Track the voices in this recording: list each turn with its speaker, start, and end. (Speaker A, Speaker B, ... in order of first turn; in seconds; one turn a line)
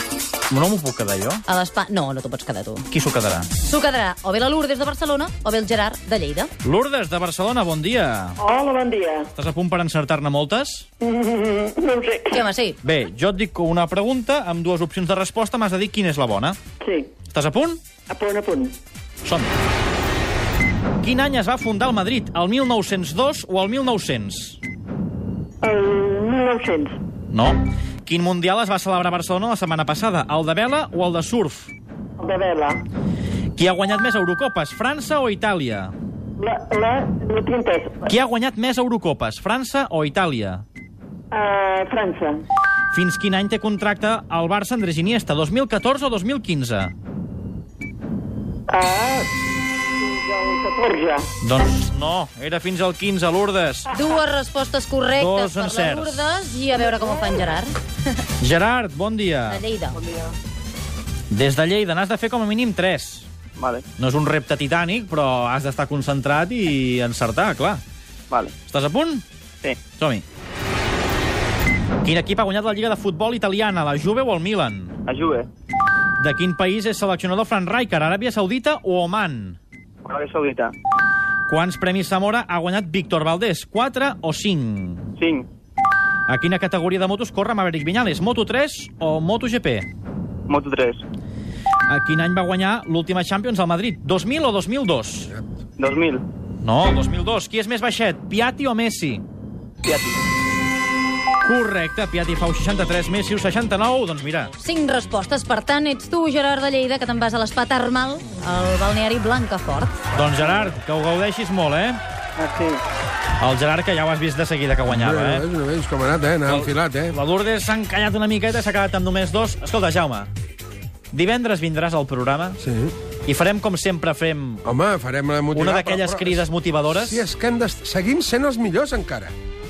Speaker A: 0.5-1.4
Speaker B: 1.5-2.9
Speaker A: 2.9-3.5
Speaker B: 3.6-6.5
Speaker A: 6.6-8.4
Speaker C: 8.4-9.3
Speaker A: 9.4-10.9
Speaker C: 11.0-12.4
Speaker B: 12.3-12.8
Speaker A: 12.8-16.6
Speaker C: 16.8-17.1
Speaker A: 17.3-17.8
Speaker C: 18.1-18.8
Speaker A: 19.2-19.5
Speaker A: 21.0-24.6
Speaker C: 25.6-27.0
Speaker A: 27.3-31.7
Speaker C: 32.2-32.8
Speaker A: 33.6-35.9
Speaker C: 36.4-38.1
Speaker A: 38.1-40.6
Speaker C: 41.3-42.4
Speaker A: 42.9-46.9
Speaker C: 48.7-49.3
Speaker C: 50.0-51.3
Speaker A: 51.4-53.9
Speaker B: 53.9-57.7
Speaker A: 55.2-56.2
Speaker A: 58.4-59.6
Speaker B: 59.5-60.0
Speaker A: 61.3-63.3
Speaker D: 63.6-63.8
Speaker A: 64.0-67.8
Speaker A: 68.7-69.2
Speaker A: 69.9-70.2
Speaker A: 72.0-75.0
Speaker D: 75.1-75.5
Speaker A: 76.2-79.6
Speaker D: 80.0-80.7
Speaker A: 81.5-85.1
Speaker D: 85.2-85.5
Speaker A: 86.3-89.9
Speaker D: 90.5-91.0
Speaker A: 91.9-95.3
Speaker D: 95.8-96.2
Speaker A: 96.6-99.2
Speaker D: 99.8-100.1
Speaker A: 101.4-104.5
Speaker B: 104.6-110.0
Speaker A: 110.1-112.0
Speaker A: 113.4-115.5
Speaker E: 114.9-117.2
Speaker A: 116.5-120.3
Speaker A: 121.1-122.6
Speaker E: 122.6-122.9
Speaker A: 123.3-124.6
Speaker E: 124.6-129.3
Speaker A: 125.5-127.2